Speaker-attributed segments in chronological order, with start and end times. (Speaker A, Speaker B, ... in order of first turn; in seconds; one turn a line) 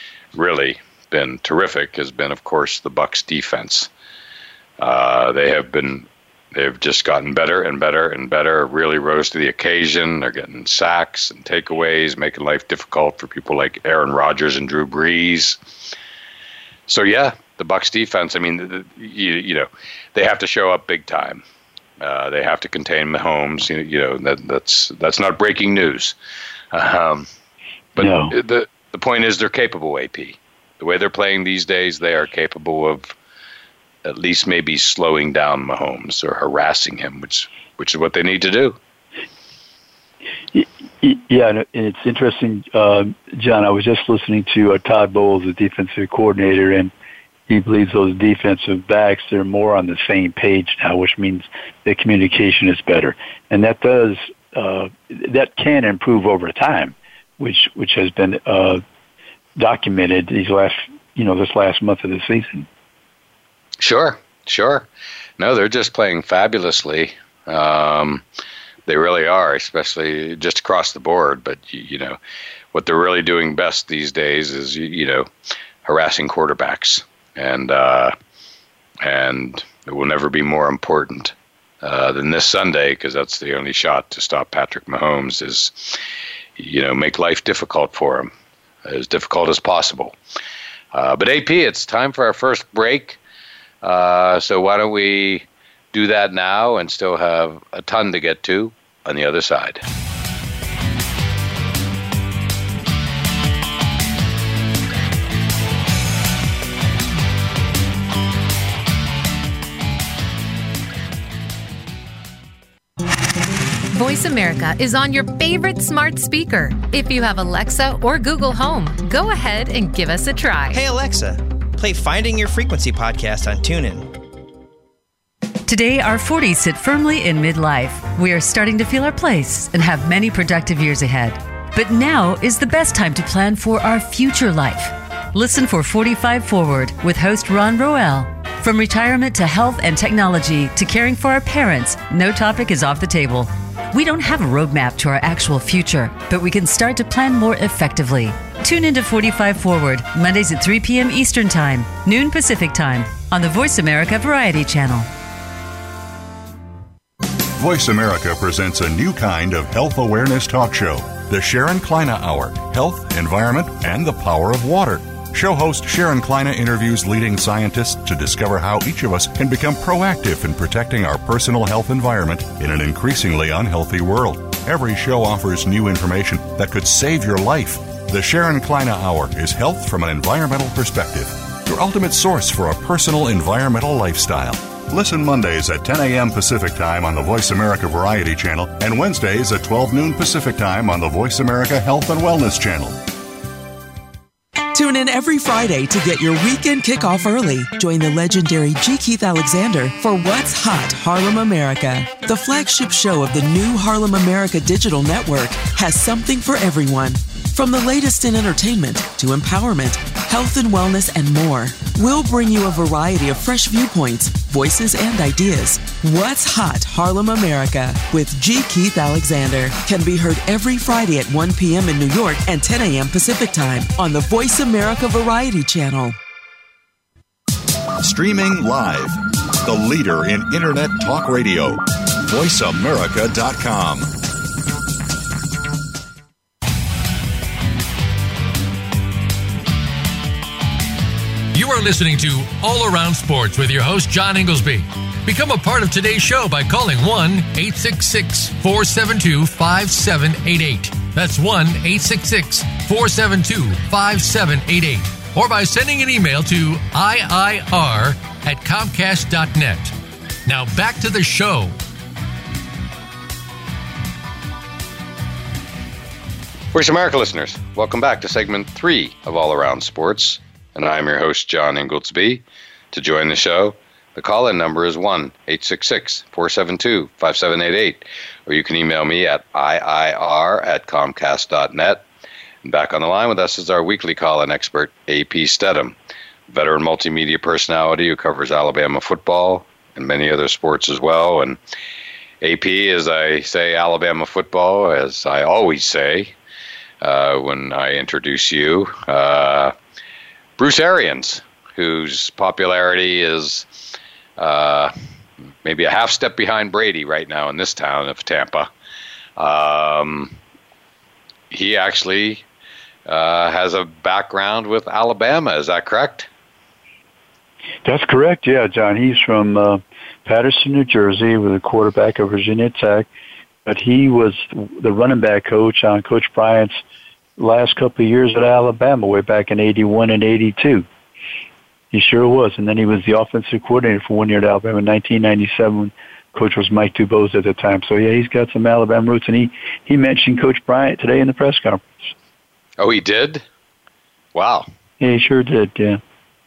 Speaker A: 0.3-3.9
Speaker A: 4.8-15.6
Speaker A: 16.9-21.4
Speaker A: 22.0-26.1
Speaker A: 26.7-27.3
Speaker A: 27.9-33.1
Speaker B: 28.0-28.3
Speaker A: 34.0-38.8
Speaker B: 40.5-46.9
Speaker B: 47.5-58.8
Speaker B: 59.5-62.7
Speaker A: 63.8-64.9
Speaker A: 65.4-68.2
Speaker A: 68.8-72.2
Speaker A: 72.7-75.3
Speaker A: 75.8-78.1
Speaker A: 79.0-86.0
Speaker A: 86.6-88.3
Speaker A: 88.8-90.1
Speaker A: 90.9-93.2
Speaker A: 93.8-99.8
Speaker C: 113.9-120.8
Speaker D: 120.7-124.1
Speaker E: 125.7-155.1
Speaker F: 157.5-193.0
Speaker G: 194.7-226.2
Speaker F: 228.0-234.1
Speaker H: 241.5-259.9
Speaker H: 260.4-261.8
Speaker A: 266.7-282.1
Speaker A: 282.6-285.9
Speaker A: 286.5-291.6
Speaker A: 292.4-296.3
Speaker A: 297.0-299.7
Speaker A: 300.6-303.7
Speaker A: 304.4-304.9
Speaker A: 305.6-308.7
Speaker A: 309.4-310.4
Speaker A: 311.5-312.4
Speaker A: 313.1-316.3
Speaker B: 317.8-323.1
Speaker B: 323.6-326.8
Speaker B: 327.4-330.9
Speaker B: 331.9-341.8
Speaker A: 342.8-343.4
Speaker A: 344.3-344.7
Speaker B: 345.0-346.0